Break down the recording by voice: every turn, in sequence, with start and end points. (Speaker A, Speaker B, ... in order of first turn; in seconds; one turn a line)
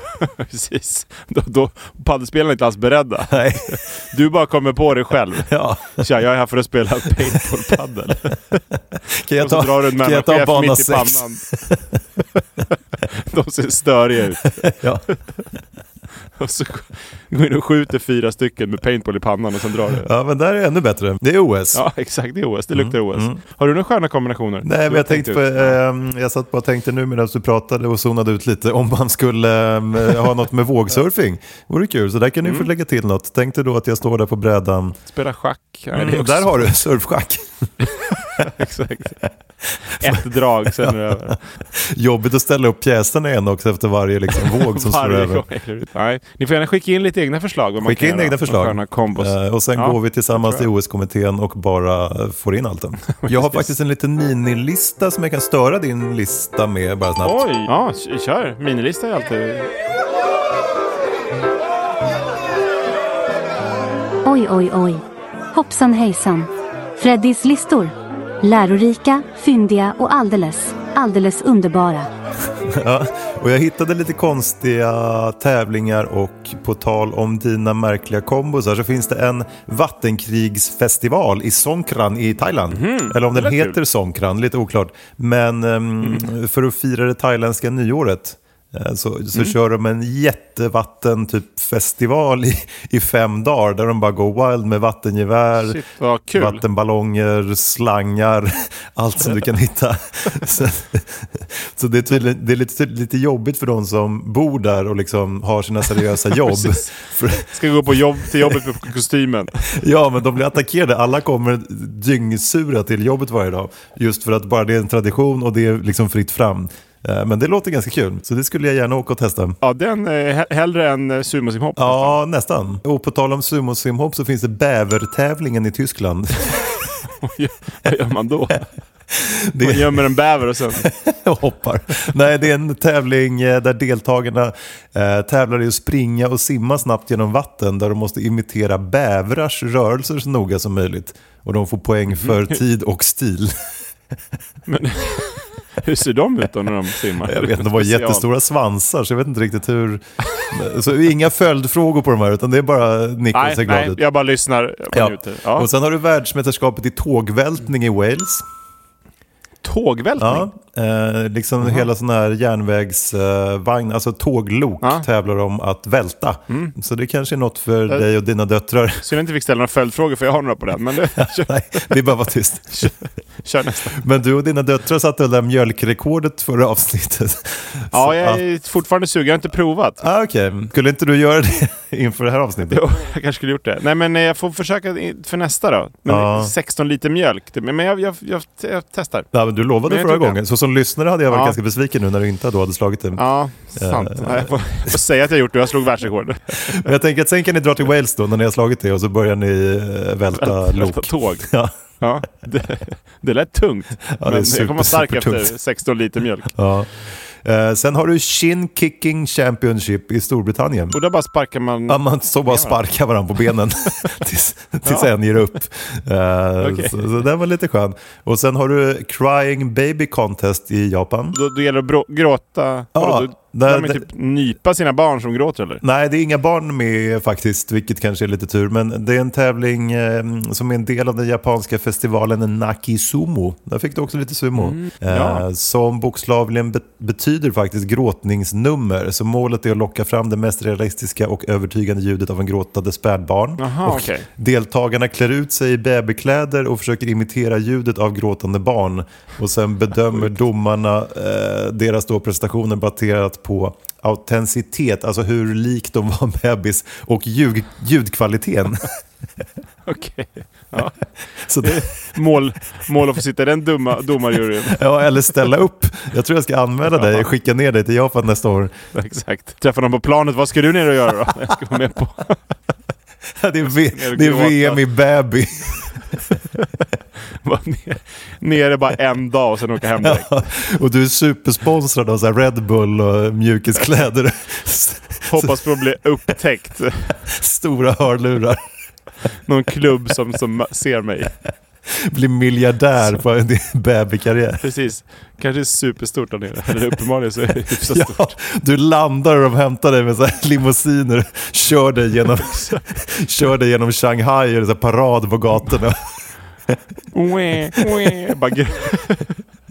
Speaker A: 0.2-8.6
Speaker B: 3.3-3.8
Speaker B: 5.5-6.1
Speaker B: 7.2-7.5
Speaker B: 9.1-12.0
Speaker A: 9.4-11.4
Speaker A: 13.1-14.7
Speaker B: 14.6-15.0
Speaker A: 16.4-20.1
Speaker B: 19.9-21.8
Speaker A: 21.7-25.8
Speaker B: 22.8-23.4
Speaker B: 24.6-35.0
Speaker A: 32.4-32.7
Speaker A: 35.1-36.6
Speaker B: 35.9-37.7
Speaker A: 38.0-39.2
Speaker B: 39.9-45.5
Speaker A: 40.0-41.4
Speaker A: 44.5-50.7
Speaker B: 47.8-57.5
Speaker A: 53.2-53.7
Speaker A: 57.2-59.7
Speaker C: 64.2-72.1
Speaker B: 72.6-95.8
Speaker A: 82.7-83.8
Speaker A: 86.0-86.3
Speaker A: 95.5-96.6
Speaker B: 96.3-108.6
Speaker A: 106.4-106.9
Speaker A: 107.4-109.7
Speaker B: 109.6-119.6
Speaker A: 119.6-122.2
Speaker B: 121.8-126.7
Speaker A: 127.2-128.7
Speaker B: 129.1-130.1
Speaker A: 129.6-130.9
Speaker B: 130.7-143.5
Speaker A: 142.1-142.5
Speaker A: 144.7-148.2
Speaker B: 147.2-154.0
Speaker A: 153.3-155.7
Speaker B: 154.9-158.4
Speaker A: 159.6-160.5
Speaker B: 160.2-169.1
Speaker A: 166.5-166.8
Speaker A: 169.0-171.9
Speaker B: 171.2-172.9
Speaker A: 172.7-174.0
Speaker B: 173.9-178.4
Speaker A: 177.9-180.0
Speaker B: 180.0-182.8
Speaker A: 182.7-189.3
Speaker B: 186.1-186.5
Speaker B: 189.3-195.0
Speaker A: 189.8-190.4
Speaker A: 191.3-191.6
Speaker A: 193.2-196.9
Speaker B: 196.6-201.7
Speaker A: 200.3-201.5
Speaker A: 202.0-206.5
Speaker B: 204.1-205.5
Speaker B: 206.5-206.9
Speaker B: 207.4-211.0
Speaker A: 210.9-212.8
Speaker B: 211.9-221.4
Speaker A: 214.8-215.1
Speaker A: 216.6-217.2
Speaker A: 221.3-225.8
Speaker B: 222.9-224.1
Speaker B: 225.8-258.9
Speaker A: 234.6-235.4
Speaker A: 243.6-244.3
Speaker A: 259.9-261.0
Speaker B: 261.4-261.9
Speaker A: 261.6-264.8
Speaker B: 264.7-268.8
Speaker A: 267.0-267.3
Speaker A: 268.9-272.4
Speaker B: 273.4-276.0
Speaker A: 273.6-274.8
Speaker A: 276.3-276.7
Speaker A: 277.4-280.3
Speaker B: 280.0-285.6
Speaker A: 285.3-287.2
Speaker B: 287.2-288.6
Speaker A: 289.5-291.3
Speaker B: 291.9-294.6
Speaker A: 294.6-298.3
Speaker B: 297.7-306.0
Speaker A: 302.4-302.8
Speaker A: 307.1-309.4
Speaker B: 307.7-308.2